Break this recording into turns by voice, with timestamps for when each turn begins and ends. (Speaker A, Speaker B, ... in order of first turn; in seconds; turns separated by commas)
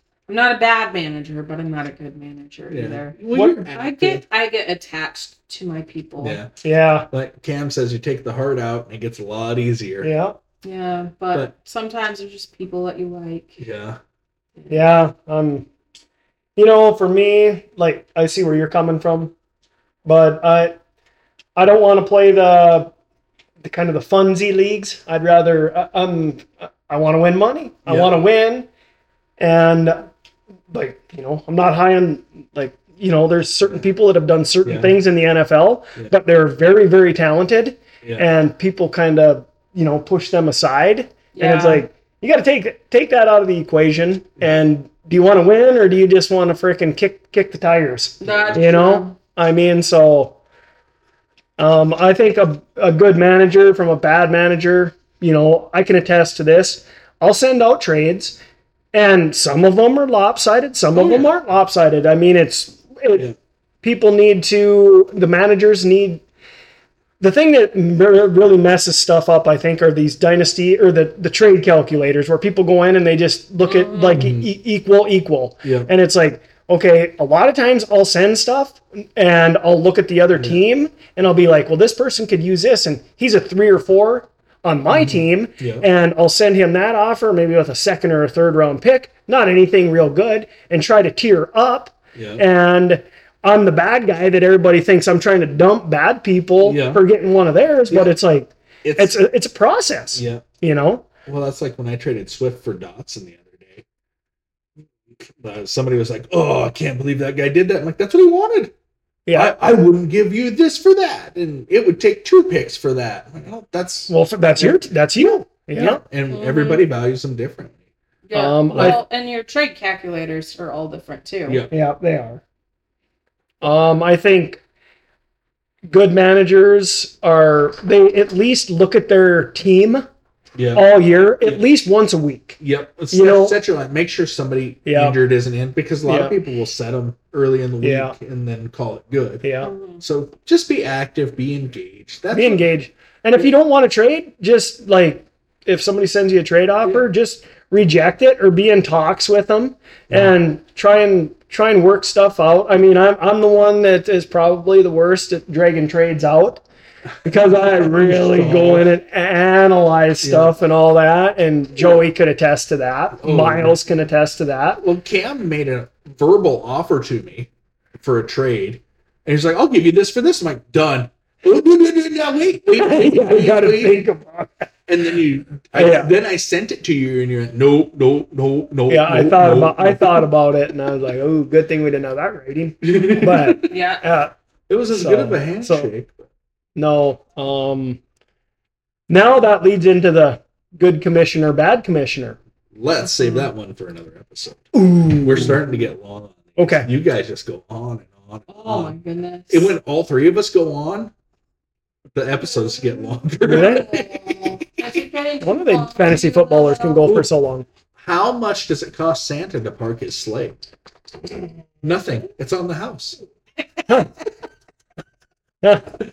Speaker A: 0.3-6.4, Speaker B: 2.7-4.2, Speaker C: 3.3-3.6, Speaker B: 6.2-6.5, Speaker C: 6.6-7.1, Speaker B: 7.1-10.1, Speaker C: 10.0-10.3, Speaker A: 10.6-13.6, Speaker B: 13.6-14.0, Speaker C: 14.7-15.7, Speaker C: 16.6-19.3, Speaker C: 20.0-20.8, Speaker C: 21.6-22.9, Speaker C: 23.6-28.7, Speaker B: 27.9-28.2, Speaker C: 29.4-30.1, Speaker C: 30.7-50.4, Speaker B: 34.6-35.0, Speaker B: 38.0-38.3, Speaker A: 41.3-41.9, Speaker A: 48.2-49.1, Speaker B: 48.2-48.7, Speaker C: 51.6-58.4, Speaker C: 58.9-63.3, Speaker B: 60.9-61.3, Speaker C: 63.8-66.2, Speaker C: 67.2-101.1, Speaker A: 73.6-74.3, Speaker B: 74.2-74.5, Speaker B: 75.6-75.9, Speaker B: 84.9-85.8, Speaker B: 92.1-92.4, Speaker B: 96.6-97.0, Speaker B: 98.8-99.2, Speaker B: 100.1-100.4, Speaker B: 101.2-103.8, Speaker B: 105.3-108.7, Speaker C: 109.2-109.6, Speaker B: 109.3-114.8, Speaker C: 114.1-116.0, Speaker B: 115.7-117.8, Speaker A: 116.3-116.8, Speaker A: 118.2-121.6, Speaker C: 118.3-119.0, Speaker B: 118.7-119.0, Speaker B: 121.5-121.7, Speaker C: 121.7-122.4, Speaker C: 123.6-124.6, Speaker C: 125.9-130.0, Speaker B: 130.6-130.8, Speaker C: 130.7-132.6, Speaker B: 132.6-139.5, Speaker C: 133.1-133.6, Speaker C: 134.8-135.2, Speaker C: 136.1-136.4, Speaker C: 137.8-138.1, Speaker C: 139.4-139.7, Speaker A: 139.6-140.0, Speaker B: 140.0-142.7, Speaker C: 142.3-156.6, Speaker C: 157.2-164.8, Speaker B: 157.9-158.9, Speaker B: 160.2-160.5, Speaker B: 163.2-163.8, Speaker B: 164.8-174.0, Speaker C: 172.7-174.7, Speaker B: 174.9-180.2, Speaker C: 175.7-176.1, Speaker C: 178.9-184.3, Speaker B: 182.8-183.6, Speaker A: 183.7-184.0, Speaker B: 184.7-186.1, Speaker C: 184.9-185.9, Speaker C: 186.8-188.0, Speaker C: 189.1-192.4, Speaker B: 192.7-194.7, Speaker A: 193.0-193.5, Speaker C: 194.7-195.6, Speaker B: 195.2-198.9, Speaker C: 196.6-196.9, Speaker A: 198.5-199.8, Speaker B: 199.5-201.1, Speaker B: 202.1-204.5, Speaker A: 203.4-207.1, Speaker C: 203.4-203.9, Speaker C: 205.4-207.7, Speaker B: 208.0-210.6, Speaker B: 211.8-213.2